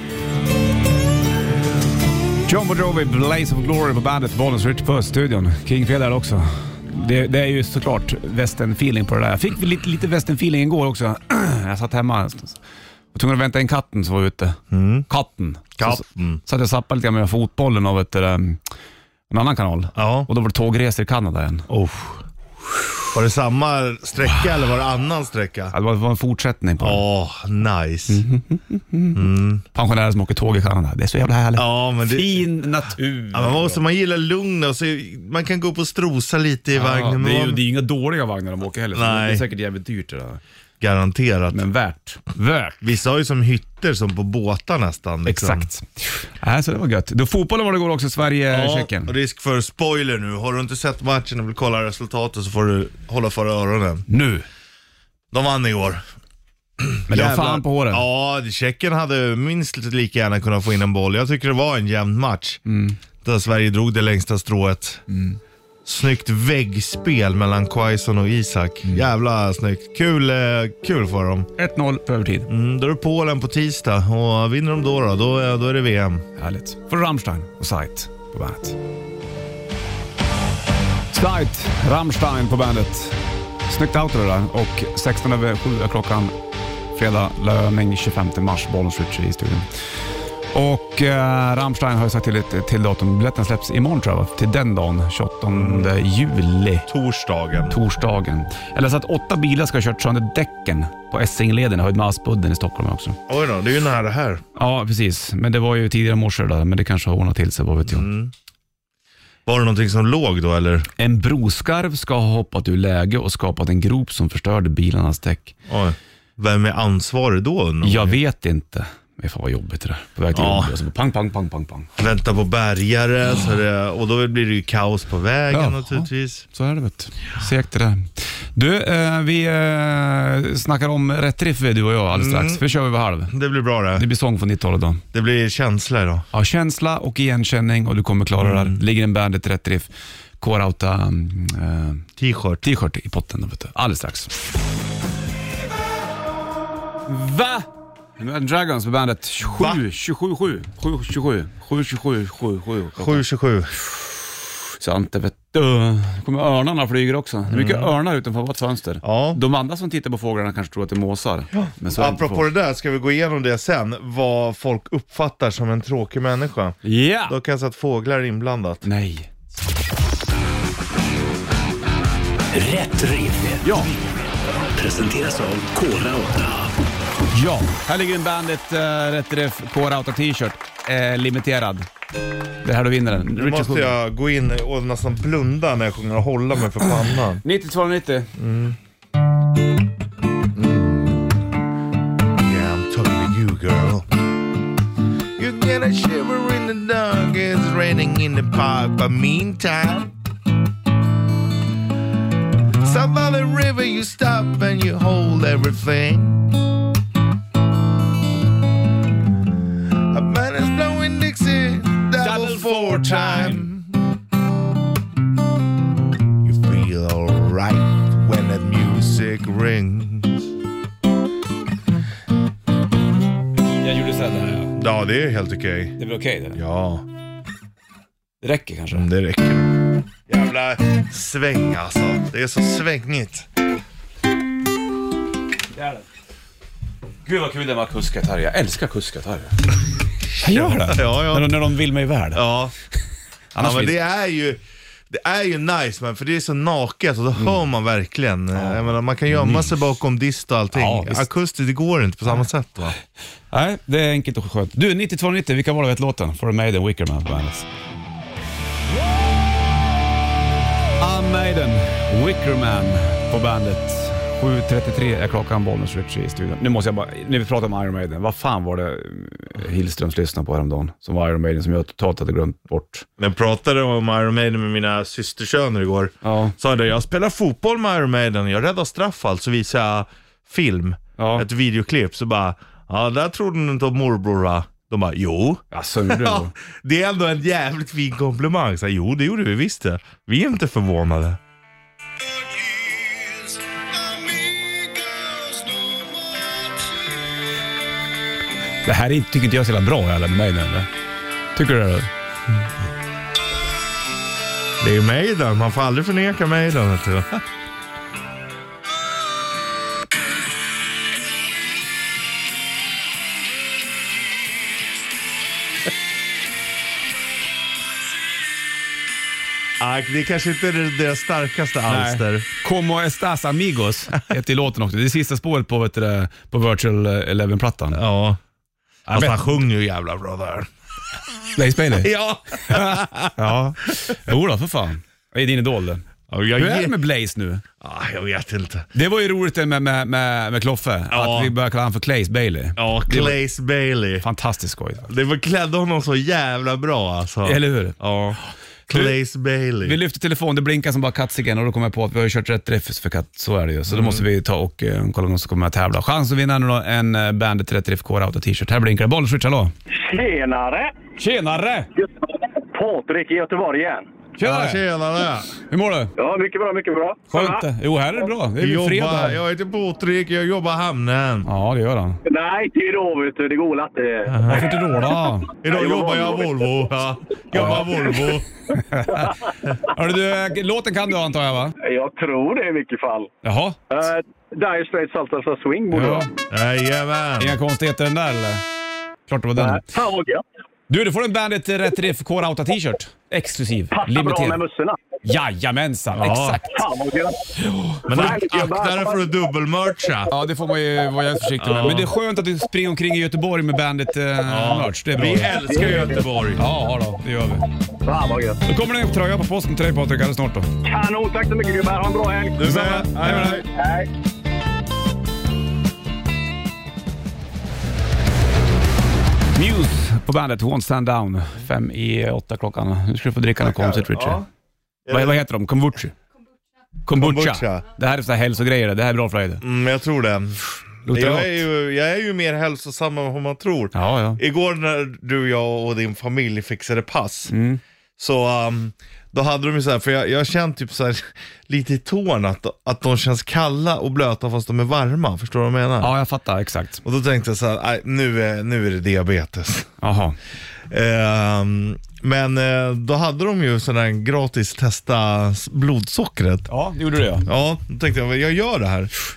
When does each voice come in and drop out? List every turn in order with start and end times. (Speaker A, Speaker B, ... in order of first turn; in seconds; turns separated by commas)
Speaker A: 2.5-12.6, Speaker A: 13.1-18.6, Speaker B: 14.7-15.1, Speaker B: 15.8-16.4, Speaker A: 19.3-21.7, Speaker B: 20.0-20.3, Speaker B: 21.7-22.2, Speaker B: 23.1-25.7, Speaker A: 25.7-27.0, Speaker B: 26.8-28.2, Speaker A: 28.1-33.8, Speaker B: 29.1-29.6, Speaker B: 31.6-32.6, Speaker B: 33.3-37.6, Speaker A: 36.7-40.4, Speaker B: 38.9-39.4, Speaker B: 40.8-41.6, Speaker A: 41.5-42.8, Speaker B: 42.8-45.7, Speaker A: 45.2-49.1, Speaker B: 48.5-54.0, Speaker A: 54.1-54.4, Speaker B: 55.3-56.0, Speaker B: 56.8-62.6, Speaker A: 57.1-58.0, Speaker A: 62.6-63.0, Speaker B: 63.2-65.0, Speaker A: 65.1-65.4, Speaker B: 65.9-71.5, Speaker A: 71.6-72.5, Speaker B: 72.5-76.2, Speaker A: 76.4-78.8, Speaker A: 81.1-86.3, Speaker A: 86.9-89.7, Speaker A: 90.5-96.9, Speaker B: 95.5-95.9, Speaker B: 96.9-97.8, Speaker A: 97.7-103.2, Speaker B: 103.3-104.4, Speaker A: 104.5-108.1, Speaker B: 107.9-108.3, Speaker B: 109.5-110.9, Speaker A: 111.0-115.5, Speaker B: 115.7-118.2, Speaker A: 117.8-121.9, Speaker B: 120.3-120.8, Speaker B: 122.0-126.4, Speaker A: 125.5-133.3, Speaker B: 132.1-132.6, Speaker B: 133.3-134.0, Speaker A: 134.0-135.0, Speaker B: 135.1-136.2, Speaker A: 136.3-142.0, Speaker B: 138.4-138.8, Speaker B: 142.2-142.6, Speaker A: 142.6-144.3, Speaker A: 147.1-153.2, Speaker B: 149.6-149.8, Speaker B: 153.0-153.7, Speaker A: 154.8-162.5, Speaker B: 157.5-157.9, Speaker B: 159.0-159.4, Speaker B: 161.5-168.8, Speaker A: 166.8-167.4, Speaker A: 168.8-169.3, Speaker C: 172.5-173.6, Speaker A: 173.6-173.9, Speaker C: 174.8-176.7, Speaker A: 177.3-181.9, Speaker A: 182.6-183.9, Speaker B: 183.3-187.4, Speaker A: 187.4-188.3, Speaker B: 188.4-188.8, Speaker B: 190.5-191.4, Speaker B: 192.4-194.2, Speaker B: 195.4-200.1, Speaker B: 202.8-206.5, Speaker B: 210.1-213.9, Speaker A: 212.2-213.7, Speaker B: 216.4-220.5, Speaker A: 223.8-224.7, Speaker B: 224.7-226.0, Speaker A: 226.0-226.6, Speaker B: 226.5-227.1, Speaker A: 228.4-229.1, Speaker B: 228.9-233.5, Speaker A: 235.8-236.0, Speaker A: 237.2-239.6, Speaker A: 240.4-242.4, Speaker B: 240.4-241.6, Speaker B: 242.3-242.7, Speaker A: 243.5-244.0, Speaker B: 243.6-253.0, Speaker A: 248.5-249.8, Speaker A: 250.7-251.3, Speaker A: 253.5-257.7, Speaker A: 261.0-273.1, Speaker B: 273.2-291.4, Speaker A: 276.2-276.5, Speaker A: 281.2-281.5, Speaker A: 285.7-286.5, Speaker B: 292.5-296.4, Speaker A: 298.8-300.9, Speaker A: 301.5-302.1, Speaker B: 304.8-307.4, Speaker B: 319.8-322.5, Speaker A: 321.9-328.0, Speaker B: 327.9-328.4, Speaker A: 329.1-329.4, Speaker B: 329.1-330.7, Speaker A: 331.6-332.1, Speaker B: 331.9-333.5, Speaker A: 332.7-337.6, Speaker B: 336.3-337.0, Speaker B: 337.8-338.9, Speaker A: 338.9-343.4, Speaker B: 341.1-341.5, Speaker B: 342.8-344.2, Speaker A: 344.2-345.1, Speaker B: 345.1-350.0, Speaker A: 347.4-348.0, Speaker A: 348.9-349.1, Speaker A: 349.8-359.7, Speaker B: 353.9-354.2, Speaker D: 359.9-360.9, Speaker A: 361.2-361.9, Speaker D: 362.0-364.1, Speaker A: 364.4-364.8, Speaker B: 364.4-365.5, Speaker A: 365.7-366.1, Speaker D: 366.2-367.6, Speaker A: 367.3-369.4, Speaker B: 368.6-371.5, Speaker A: 371.4-372.2, Speaker D: 372.2-374.8, Speaker B: 374.3-374.7, Speaker A: 374.5-375.5, Speaker B: 375.6-378.5, Speaker D: 375.6-376.6, Speaker A: 377.5-377.9, Speaker A: 378.8-381.8, Speaker D: 381.8-383.3, Speaker A: 383.4-383.8, Speaker D: 383.9-386.3, Speaker A: 385.9-386.3, Speaker B: 386.5-387.6, Speaker A: 387.4-388.6, Speaker A: 389.3-389.8, Speaker D: 389.6-390.4, Speaker A: 390.9-394.6, Speaker D: 393.9-395.0, Speaker A: 395.2-396.8, Speaker B: 396.1-396.6, Speaker D: 396.6-397.5, Speaker D: 398.0-399.3, Speaker B: 398.1-400.3, Speaker A: 400.3-405.9, Speaker B: 401.6-402.1, Speaker B: 404.5-406.6, Speaker D: 405.6-406.2, Speaker A: 406.6-407.6, Speaker D: 408.0-408.6, Speaker A: 408.7-410.7, Speaker D: 410.8-414.1, Speaker B: 412.6-413.7, Speaker A: 413.2-413.5, Speaker A: 419.5-424.4, Speaker B: 423.6-424.5, Speaker B: 425.1-425.4, Speaker A: 425.1-426.2, Speaker A: 427.1-429.6, Speaker B: 427.1-427.9, Speaker B: 429.6-437.5, Speaker A: 431.1-431.6, Speaker A: 433.9-434.4, Speaker A: 437.5-437.8, Speaker B: 438.2-446.1, Speaker A: 446.0-447.0, Speaker B: 447.0-449.9, Speaker A: 450.0-450.4, Speaker B: 450.9-456.7, Speaker A: 456.7-457.5, Speaker B: 457.4-459.1